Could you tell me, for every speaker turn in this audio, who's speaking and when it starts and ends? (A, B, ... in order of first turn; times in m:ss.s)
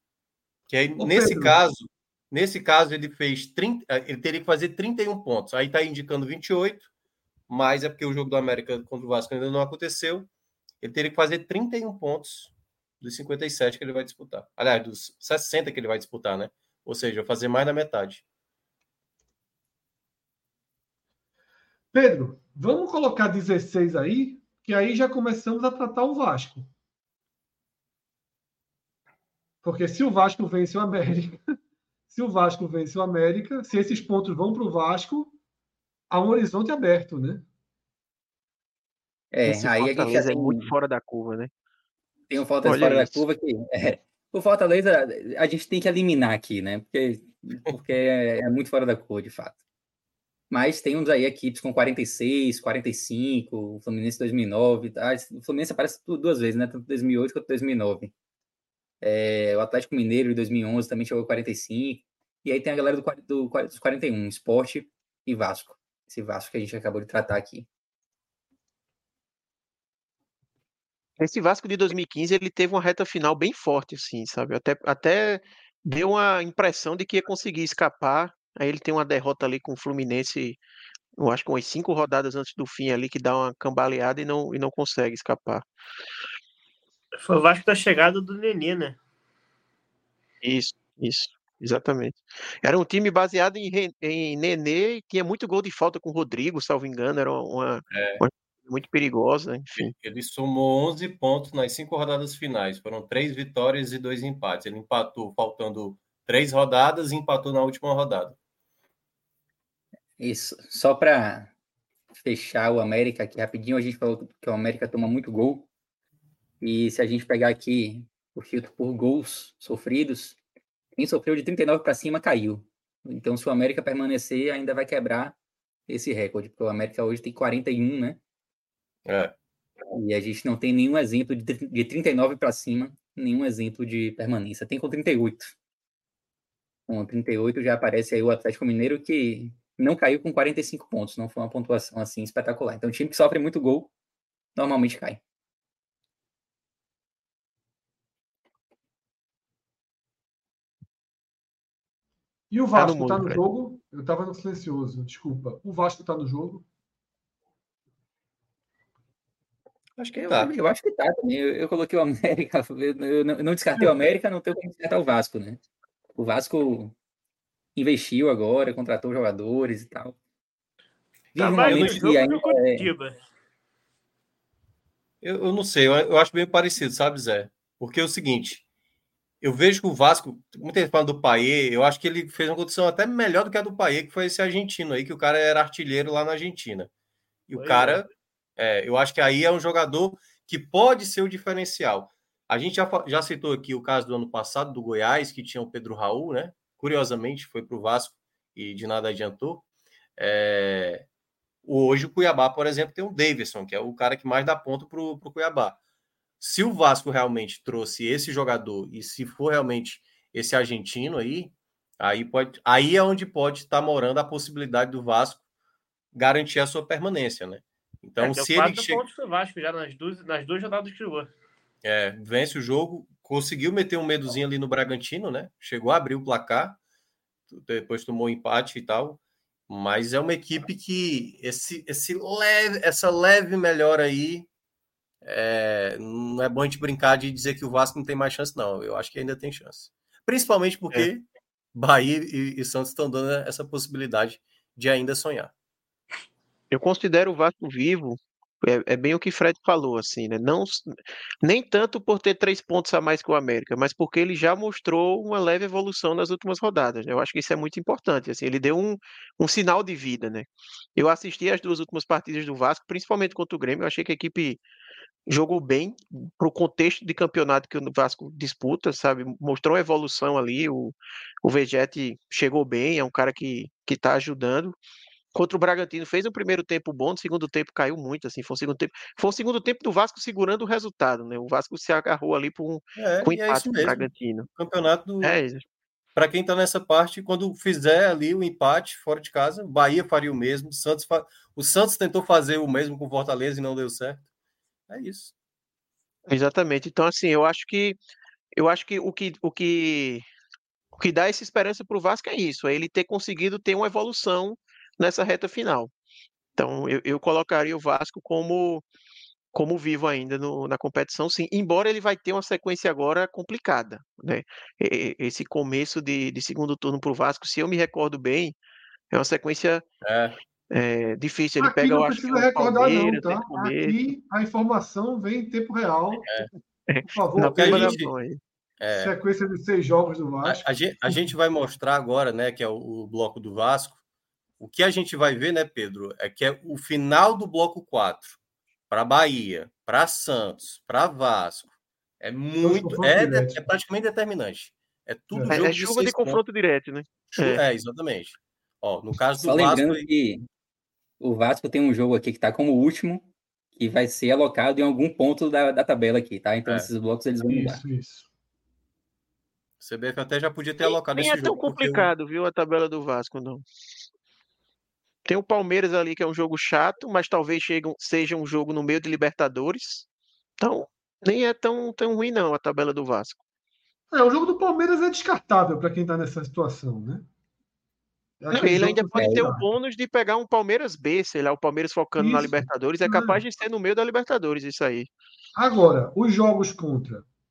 0:00.7-0:06.9 A
0:01.0-0:01.6 B
0:07.5-0:10.3 A
0:10.8-0:18.2 A
0:21.9-0:26.7 B
0:29.6-0:31.4 B
0:32.1-0:35.3 B
0:36.1-0:37.4 B
0:39.3-0:40.7 C
0:39.4-0:41.5 D
0:42.3-0:49.6 C
0:42.6-0:43.2 D
0:50.5-0:58.1 C
0:59.0-1:07.7 C
1:11.2-1:20.6 D
1:21.2-1:25.6 D
1:27.2-1:29.0 E
1:30.4-1:39.9 D
1:37.9-1:38.2 A
1:39.8-1:48.4 A
1:50.2-1:51.5 C
1:52.2-1:55.7 C
1:56.6-2:00.4 C
2:01.0-2:05.3 C
2:05.9-2:08.2 C
2:09.0-2:09.3 A
2:09.9-2:15.5 C
2:16.9-2:23.9 C
2:24.6-2:25.2 C
2:32.5-2:36.6 B
2:32.7-2:33.4 D
2:40.0-2:40.5 A
2:40.2-2:45.6 C
2:46.2-2:46.9 C
2:47.8-2:50.2 C
2:51.3-2:52.9 C
2:51.4-2:53.2 E
2:51.7-2:52.1 A
2:55.2-2:58.6 A
2:59.4-3:06.9 A
3:07.5-3:19.6 A
3:07.6-3:08.0 E
3:20.2-3:21.0 A
3:21.6-3:25.8 A
3:26.4-3:35.4 A
3:36.1-3:39.0 A
3:38.2-3:41.3 E
3:41.8-3:46.8 A
3:47.5-3:54.5 A
3:55.2-4:05.5 A
4:06.7-4:24.6 D
4:25.3-4:34.8 D
4:35.3-4:44.5 D
4:43.0-4:45.4 A
4:45.2-4:45.6 D
4:46.2-4:54.2 A
4:54.9-4:55.3 A
4:56.3-4:58.0 D
4:58.6-5:00.3 D
5:00.9-5:05.9 D
5:06.6-5:08.8 D
5:09.5-5:18.6 D
5:19.1-5:19.8 D
5:20.0-5:20.4 A
5:20.7-5:24.0 D
5:21.6-5:26.3 B
5:26.9-5:28.4 D
5:27.1-5:28.0 B
5:27.5-5:28.1 A
5:28.8-5:29.1 A
5:28.9-5:31.3 B
5:30.4-5:34.0 A
5:34.6-5:38.4 A
5:38.9-5:46.4 A
5:42.6-5:43.6 B
5:45.3-5:45.6 B
5:45.5-5:47.6 D
5:47.4-5:50.0 A
5:49.4-5:50.4 C
5:51.2-5:57.8 C
5:57.5-5:58.3 B
5:59.8-6:02.1 A
6:01.1-6:03.6 D
6:05.2-6:10.0 D
6:10.6-6:13.4 D
6:14.1-6:17.3 B
6:18.4-6:19.6 B
6:18.5-6:25.1 D
6:19.1-6:19.5 C
6:22.2-6:23.4 B
6:25.6-6:27.2 B